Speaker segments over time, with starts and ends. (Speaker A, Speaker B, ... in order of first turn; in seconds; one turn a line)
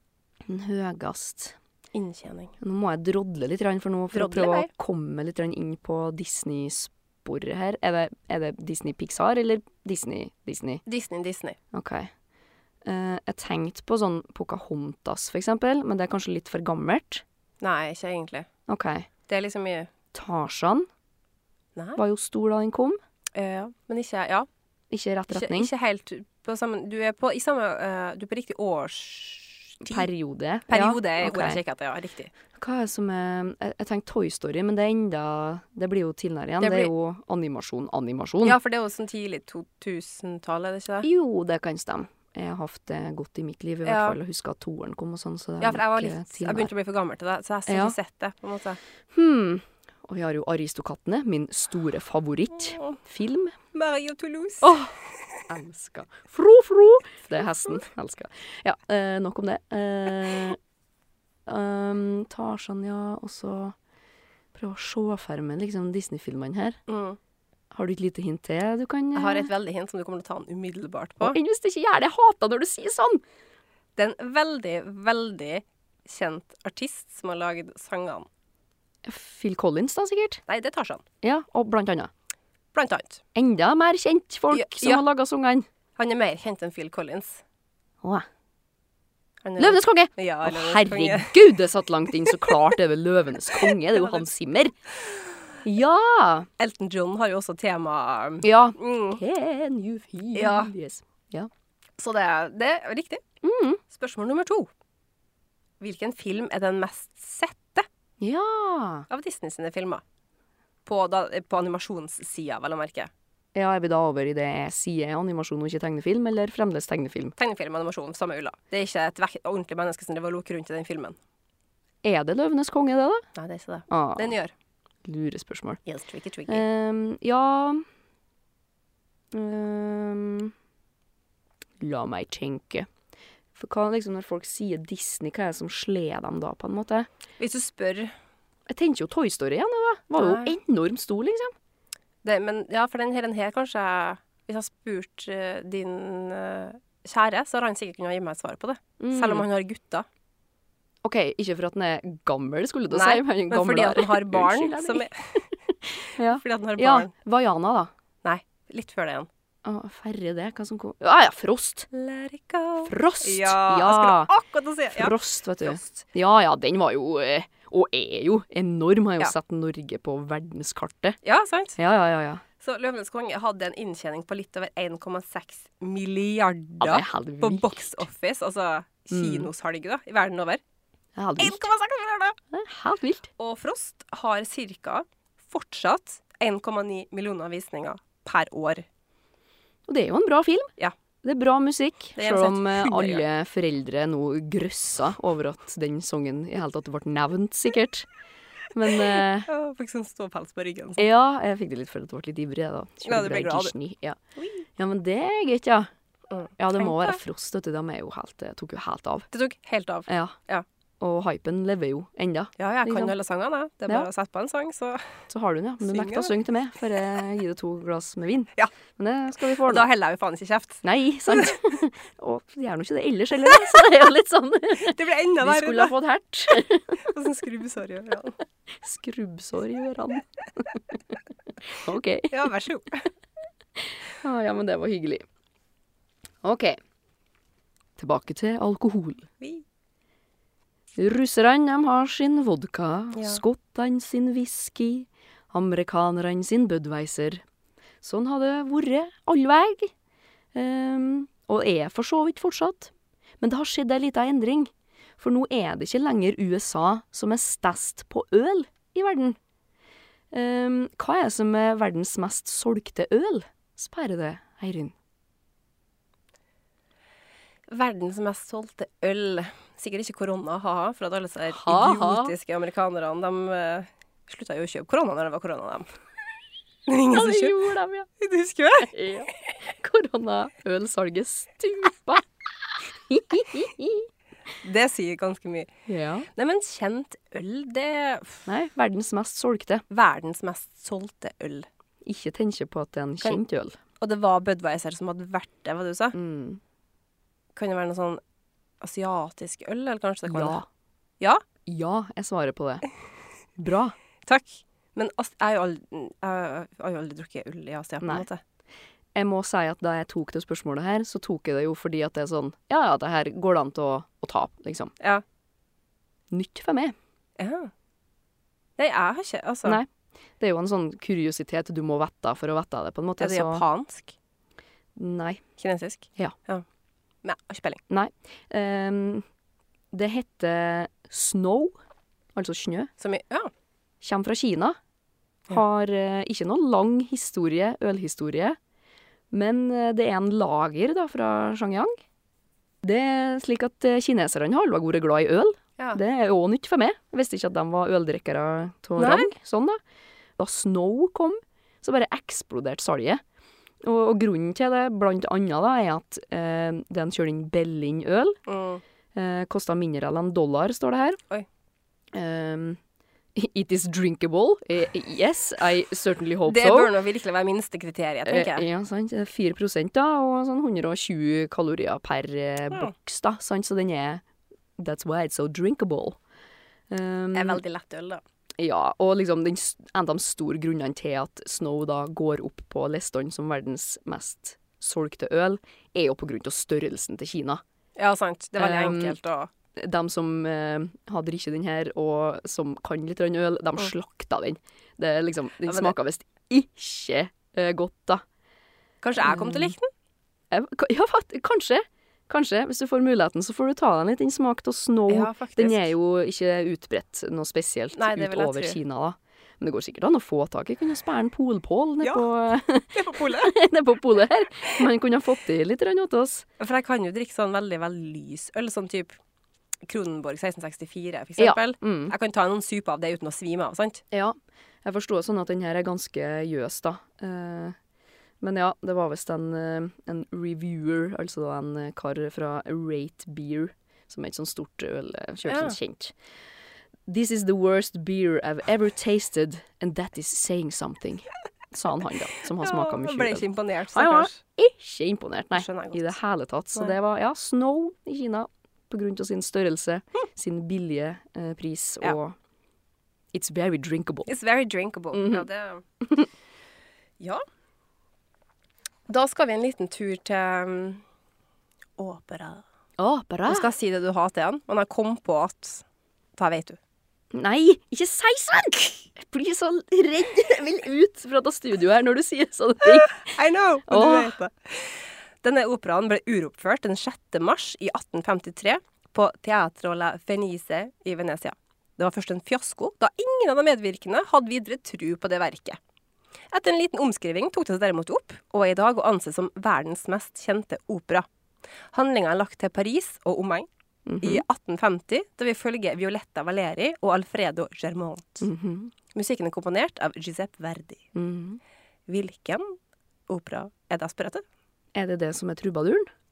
Speaker A: 0.5-1.6
Speaker B: 1.9-2.5
Speaker A: 2.6-10.8
Speaker B: 4.1-4.7
Speaker B: 10.8-11.6
Speaker A: 11.7-12.1
Speaker A: 12.8-17.2
Speaker B: 17.6-18.5
Speaker A: 18.7-19.1
Speaker B: 19.3-19.9
Speaker A: 20.1-20.9
Speaker A: 22.0-23.0
Speaker B: 23.3-24.5
Speaker A: 24.9-25.7
Speaker B: 25.3-30.1
Speaker A: 29.8-31.6
Speaker B: 30.7-32.3
Speaker A: 32.5-38.6
Speaker B: 36.6-36.9
Speaker B: 38.4-41.1
Speaker A: 41.0-46.7
Speaker B: 43.8-44.2
Speaker B: 45.6-48.8
Speaker A: 47.7-48.0
Speaker A: 49.1-53.5
Speaker B: 52.6-53.0
Speaker B: 53.7-55.4
Speaker A: 54.6-54.9
Speaker A: 55.5-60.6
Speaker A: 61.5-63.7
Speaker A: 64.5-66.8
Speaker B: 66.9-67.2
Speaker A: 67.7-69.5
Speaker B: 69.1-71.4
Speaker A: 71.2-73.2
Speaker B: 74.0-78.3
Speaker A: 79.0-80.4
Speaker B: 80.5-81.0
Speaker A: 81.2-82.1
Speaker B: 82.7-83.2
Speaker A: 83.3-85.7
Speaker B: 84.5-85.0
Speaker B: 86.0-87.4
Speaker B: 89.4-91.5
Speaker A: 89.6-94.7
Speaker B: 92.2-92.5
Speaker B: 93.5-94.2
Speaker A: 95.6-96.5
Speaker B: 96.6-99.2
Speaker A: 98.4-101.5
Speaker B: 100.3-100.7
Speaker B: 102.0-103.2
Speaker A: 103.4-103.8
Speaker B: 103.9-104.7
Speaker B: 105.8-107.8
Speaker A: 108.2-109.0
Speaker B: 109.1-110.0
Speaker B: 110.8-113.1
Speaker A: 113.5-117.3
Speaker B: 117.4-121.2
Speaker A: 122.0-123.2
Speaker B: 123.3-124.5
Speaker A: 123.9-124.3
Speaker A: 125.0-125.8
Speaker B: 125.8-126.6
Speaker A: 126.5-127.8
Speaker A: 129.3-130.5
Speaker A: 131.8-132.9
Speaker A: 133.5-137.1
Speaker B: 137.4-138.1
Speaker A: 138.7-141.5
Speaker B: 140.2-140.5
Speaker B: 142.2-150.1
Speaker A: 149.0-149.4
Speaker A: 151.0-155.1
Speaker B: 152.9-155.4
Speaker A: 155.7-157.9
Speaker B: 156.2-157.1
Speaker B: 158.2-159.3
Speaker A: 159.6-161.9
Speaker B: 161.9-165.9
Speaker A: 162.8-164.3
Speaker A: 164.9-171.2
Speaker B: 171.2-171.8
Speaker A: 171.8-172.4
Speaker B: 172.6-180.6
Speaker A: 176.8-178.0
Speaker A: 179.1-179.5
Speaker A: 181.2-181.7
Speaker B: 181.4-182.4
Speaker A: 182.5-183.3
Speaker B: 183.4-188.8
Speaker A: 189.9-190.7
Speaker A: 191.2-198.1
Speaker B: 192.2-193.2
Speaker A: 198.7-199.5
Speaker B: 199.4-201.1
Speaker A: 201.0-204.2
Speaker B: 203.0-203.7
Speaker B: 204.4-204.6
Speaker A: 204.8-205.9
Speaker B: 206.3-207.2
Speaker A: 206.6-209.3
Speaker B: 209.3-210.6
Speaker A: 210.1-210.4
Speaker A: 211.0-213.1
Speaker B: 212.6-215.2
Speaker A: 215.3-219.9
Speaker B: 215.8-216.3
Speaker B: 219.6-221.6
Speaker A: 220.8-227.1
Speaker B: 224.8-225.9
Speaker B: 227.0-228.4
Speaker A: 228.8-231.0
Speaker A: 231.7-232.5
Speaker B: 232.3-233.1
Speaker A: 233.8-235.2
Speaker A: 236.4-236.8
Speaker A: 238.0-239.3
Speaker A: 240.9-247.4
Speaker B: 243.1-243.4
Speaker A: 248.0-249.9
Speaker A: 250.5-259.4
Speaker A: 260.3-264.9
Speaker B: 267.7-275.9
Speaker A: 271.5-272.3
Speaker B: 276.9-277.6
Speaker A: 277.1-278.1
Speaker B: 278.2-278.9
Speaker A: 278.9-284.1
Speaker B: 284.6-285.7
Speaker A: 285.9-286.3
Speaker B: 286.3-288.5
Speaker A: 288.5-289.8
Speaker B: 289.9-291.7
Speaker A: 292.0-293.8
Speaker B: 294.0-296.1
Speaker A: 296.1-296.6
Speaker B: 297.6-298.2
Speaker B: 298.8-300.6
Speaker A: 300.3-300.6
Speaker A: 301.6-302.8
Speaker A: 303.6-303.9
Speaker B: 304.2-308.4
Speaker A: 309.1-314.9
Speaker A: 316.3-316.9
Speaker B: 317.4-317.7
Speaker B: 318.8-319.8
Speaker A: 320.4-323.6
Speaker B: 323.2-324.1
Speaker A: 324.9-325.4
Speaker B: 325.6-326.6
Speaker B: 327.2-327.8
Speaker A: 327.9-329.2
Speaker A: 329.9-331.8
Speaker A: 332.3-332.9
Speaker B: 333.0-333.5
Speaker A: 334.0-334.8
Speaker A: 335.5-338.6
Speaker A: 339.3-342.0
Speaker A: 342.8-349.8
Speaker B: 349.0-349.3
Speaker A: 350.4-353.2
Speaker A: 353.8-358.4
Speaker B: 358.5-358.8
Speaker A: 359.1-361.2
Speaker A: 362.1-362.8
Speaker A: 363.3-366.9
Speaker B: 366.4-368.6
Speaker A: 368.2-374.2
Speaker A: 374.8-376.2
Speaker A: 376.9-377.6
Speaker B: 377.3-378.2
Speaker A: 378.6-387.6
Speaker B: 388.0-389.5
Speaker A: 388.6-389.2
Speaker A: 389.8-398.2
Speaker B: 395.6-395.9
Speaker B: 399.0-399.9
Speaker A: 399.2-399.7
Speaker A: 400.5-416.4
Speaker B: 405.1-405.9
Speaker B: 407.9-408.8
Speaker B: 412.9-413.5
Speaker B: 416.6-419.2
Speaker B: 419.9-424.0
Speaker A: 421.4-422.1
Speaker A: 424.1-427.8
Speaker A: 428.4-436.1
Speaker B: 435.5-435.8
Speaker A: 437.1-452.4
Speaker B: 442.6-444.4
Speaker B: 445.5-446.2
Speaker A: 453.3-454.3
Speaker B: 454.3-455.8
Speaker A: 455.1-455.4
Speaker B: 459.1-461.0
Speaker B: 462.0-462.6
Speaker A: 463.0-463.7
Speaker B: 463.5-465.8
Speaker B: 466.4-466.8
Speaker A: 467.3-474.4
Speaker B: 473.1-485.8
Speaker B: 486.5-491.3
Speaker B: 491.9-493.7
Speaker A: 494.1-494.4
Speaker B: 494.2-498.5
Speaker A: 498.4-498.9
Speaker B: 499.1-501.1
Speaker A: 501.1-501.6
Speaker B: 502.1-502.8
Speaker B: 503.3-504.4
Speaker A: 504.9-506.1